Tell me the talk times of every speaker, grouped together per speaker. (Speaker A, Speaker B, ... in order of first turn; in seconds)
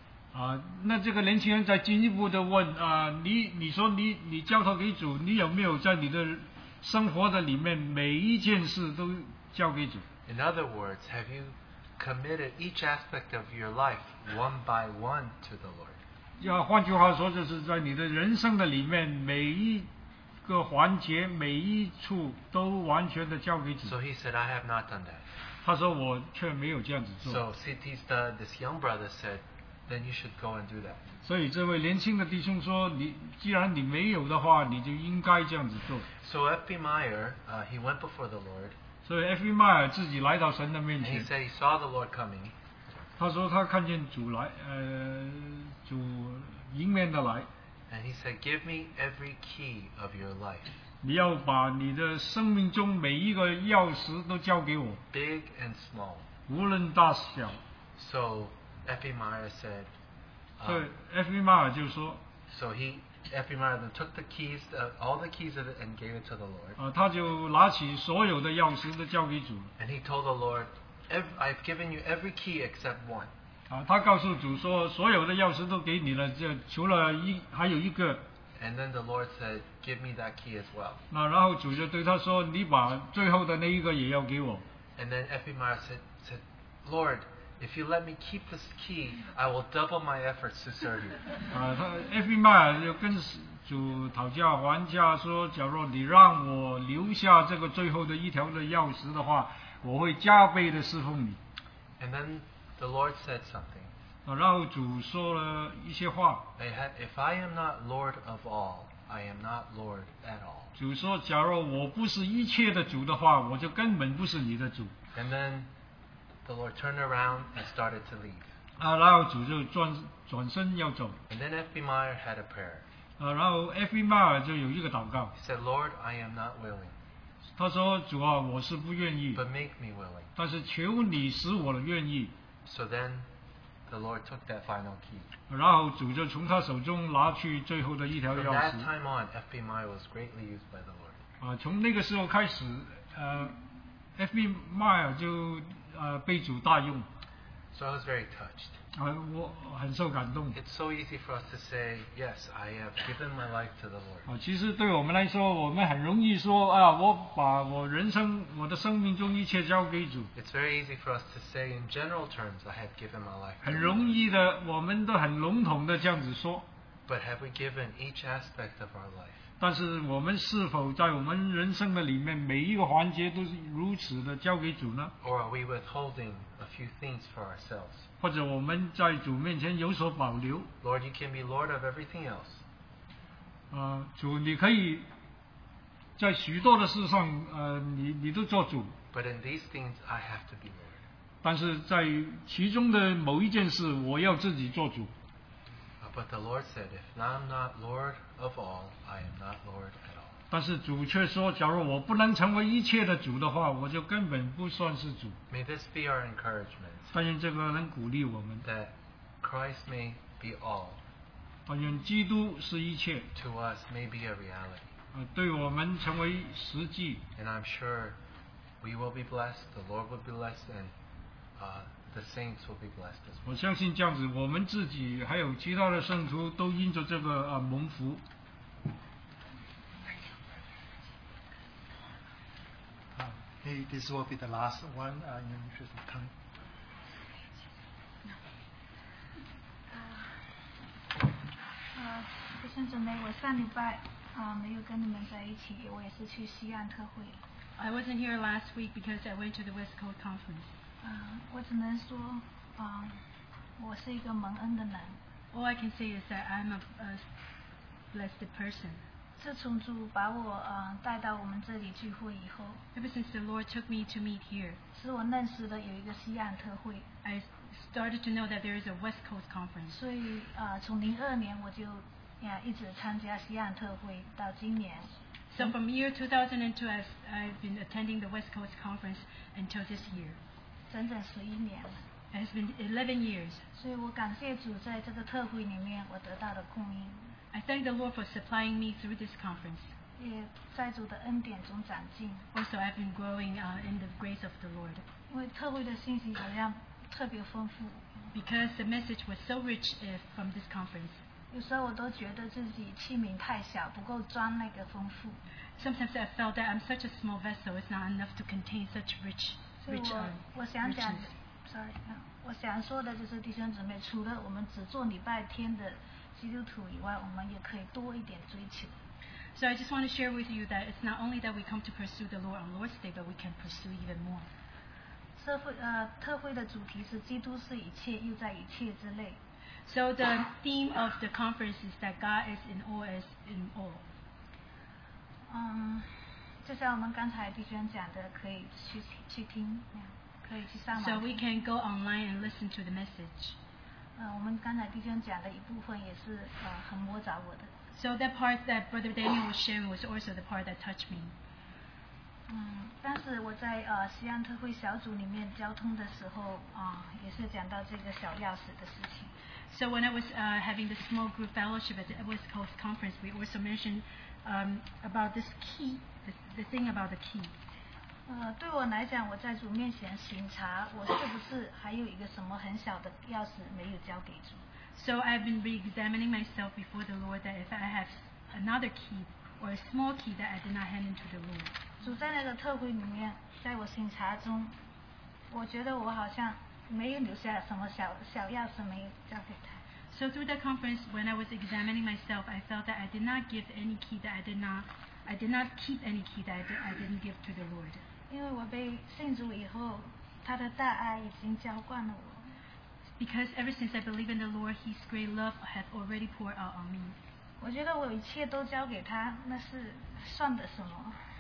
Speaker A: 0.3-10.1, 16.4-19.9, 20.4-23.9, 25.6-27.4, 31.2-36.1, 39.0-41.3, 43.2-47.5, 51.0-55.0, 56.5-57.6, 60.6-62.2, 66.8-69.7, 73.7-78.3, 81.1-84.7, 91.5-101.4, 104.3-106.5, 110.8-114.9, 118.8-121.2, 123.2-125.3, 127.6-129.4, 130.4-132.3, 135.5-138.9, 141.4-143.6, 144.2-147.1, 148.9-150.6, 154.3-160.3, 163.6-166.7, 169.6-175.1, 178.2-180.7, 183.7-185.1, 186.2-189.0, 191.4-195.1, 200.5-205.4, 207.1-208.7, 211.7-213.3, 215.1-217.2, 223.4-228.2
Speaker B: 10.3-16.0, 23.8-25.3, 27.2-31.0, 36.2-38.8, 41.0-42.5, 47.9-50.7, 55.1-56.3, 58.0-59.9, 60.6-60.9, 62.5-66.8, 69.8-73.3, 78.6-81.0, 85.0-91.2, 102.0-103.9, 106.6-110.7, 115.1-115.7, 116.5-118.5, 121.3-122.9, 125.4-127.0, 129.3-130.3, 132.7-133.3, 133.9-135.3, 138.3-141.2, 147.7-148.8, 150.5-154.3, 160.3-164.2, 167.1-169.5, 175.2-178.1, 180.8-182.6, 189.1-191.0, 196.0-200.4, 205.5-207.1, 208.6-211.0, 213.3-214.9, 217.4-218.2, 218.8-220.9, 221.6-223.6
Speaker C: 233.2-236.3
Speaker D: 239.9-240.3, 241.9-247.4, 251.0-253.2, 253.8-255.2, 259.4-262.8, 264.9-267.1, 269.9-275.7, 280.9-282.0, 283.8-287.4, 290.2-292.5, 295.3-298.3, 301.5-305.4, 309.8-319.0, 325.4-329.4, 335.5-336.1, 336.6-341.4, 344.2-347.7, 352.5-359.3, 368.3-374.6, 382.0-384.8, 385.5-389.8, 398.3-402.5, 407.6-411.2
Speaker E: 247.8-250.8, 255.5-257.2, 258.1-259.0, 262.9-264.8, 267.2-270.0, 275.5-280.4, 282.3-283.6, 287.5-289.9, 292.5-295.1, 298.3-301.2, 305.8-311.3, 319.6-324.5, 329.9-334.1, 340.9-343.6, 347.9-351.3, 359.7-367.6, 374.9-381.9, 390.1-398.0, 403.2-407.2